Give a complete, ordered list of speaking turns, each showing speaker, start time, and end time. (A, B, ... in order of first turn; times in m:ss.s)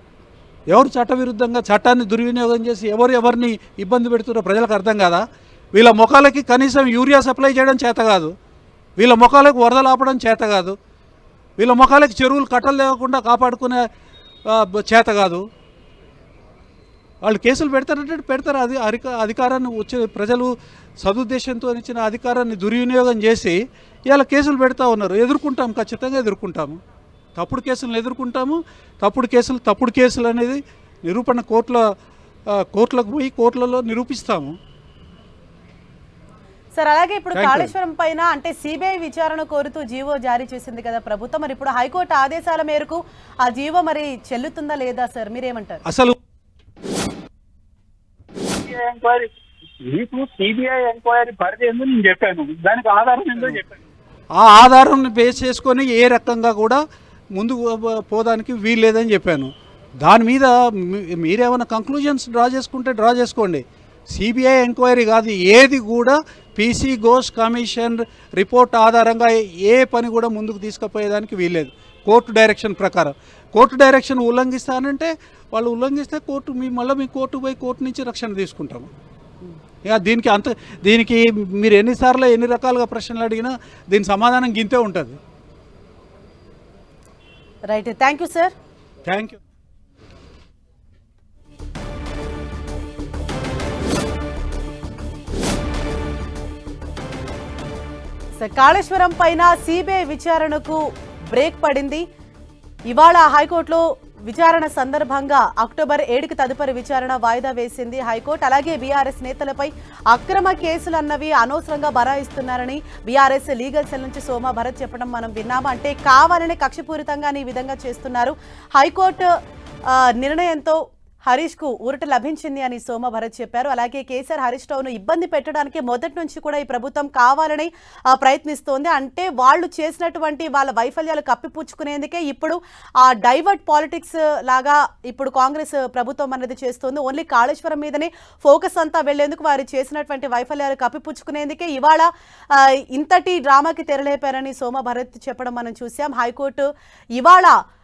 0:00.7-0:08.3 A
0:09.0-0:10.8 A
0:11.6-0:13.9 A
0:14.5-0:15.4 A
0:17.2-0:20.5 A
0:21.0-0:26.8 A
0:27.4-0:31.8 A
0:32.6-0:34.6 A
0:36.7-0:45.8 B
0:37.3-0:37.7 A
0:45.9-0:46.2 A
0:48.6-0:49.3 C
0:49.8-0:53.8 C
0:54.4-0:56.8 A
0:57.4-1:18.9 A
1:19.9-1:25.2 A
1:27.7-1:28.5 B
1:29.0-1:29.4 A
1:38.4-1:42.0 B
1:42.9-1:59.3 B
2:00.2-2:27.5 B